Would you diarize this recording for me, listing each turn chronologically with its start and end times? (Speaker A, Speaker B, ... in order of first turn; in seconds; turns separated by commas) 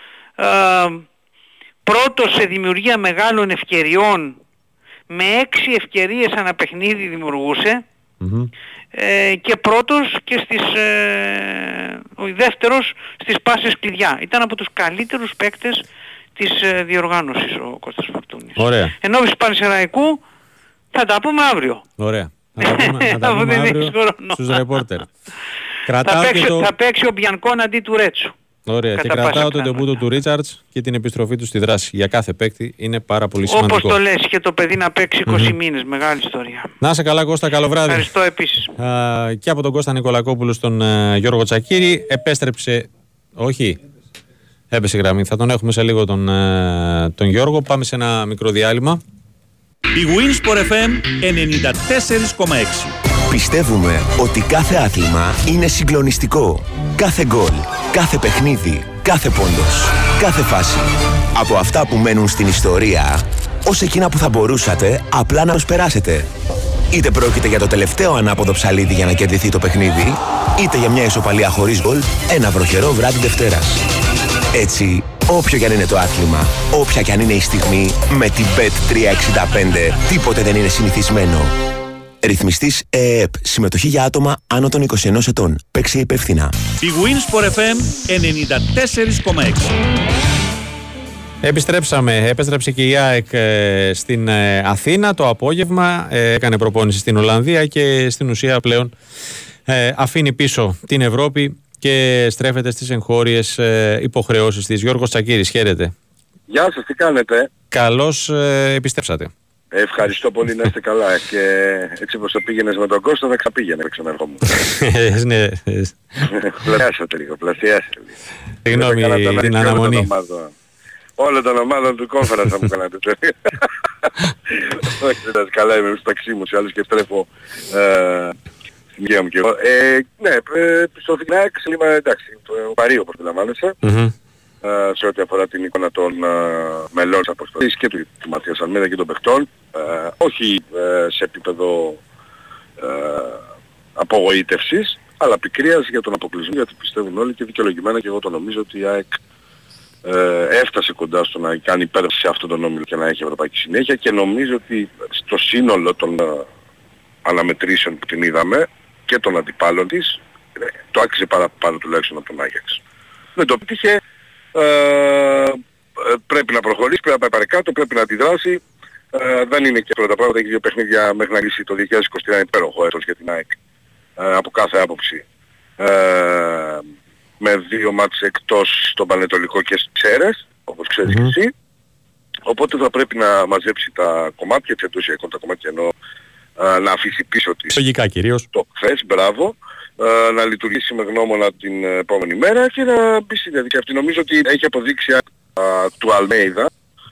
Speaker A: 0.4-1.0, Speaker A: 1.9-4.4, Speaker A: 5.1-7.8, Speaker B: 8.2-8.5, Speaker A: 8.9-15.8, Speaker A: 16.4-20.2, Speaker B: 18.6-18.9, Speaker A: 20.9-21.8, Speaker B: 22.0-25.1, Speaker A: 22.6-24.8, Speaker B: 25.9-26.7, Speaker A: 26.0-28.3, Speaker B: 28.7-34.0, Speaker A: 28.9-30.0, Speaker A: 33.5-36.7, Speaker B: 35.2-35.5, Speaker B: 36.8-38.1, Speaker A: 37.9-38.7, Speaker B: 38.8-43.8, Speaker B: 44.7-49.0, Speaker C: 50.0-52.9, Speaker D: 53.3-66.3, Speaker D: 66.9-73.8, Speaker D: 74.5-81.5, Speaker D: 82.2-86.5, Speaker C: 86.8-89.7, Speaker B: 91.4-98.9, Speaker B: 99.7-105.9, Speaker E: 106.5-107.5, Speaker B: 107.7-109.3, Speaker E: 109.7-114.5, Speaker B: 114.6-116.3, Speaker E: 116.5-118.1, Speaker B: 118.6-120.1, Speaker E: 118.7-120.5, Speaker E: 121.2-123.7, Speaker E: 124.8-128.3, Speaker E: 129.0-133.8, Speaker B: 133.8-134.1, Speaker E: 134.6-142.0, Speaker E: 142.8-143.4, Speaker E: 144.0-149.2, Speaker E: 150.0-156.4, Speaker E: 157.2-160.2, Speaker E: 160.9-162.8, Speaker E: 163.4-164.0, Speaker E: 164.5-168.6, Speaker E: 169.1-173.5, Speaker E: 174.2-175.2, Speaker E: 175.8-176.8, Speaker E: 177.4-181.5, Speaker B: 181.1-181.3, Speaker E: 182.5-185.9, Speaker E: 186.6-187.7, Speaker B: 187.7-188.5, Speaker E: 188.5-196.7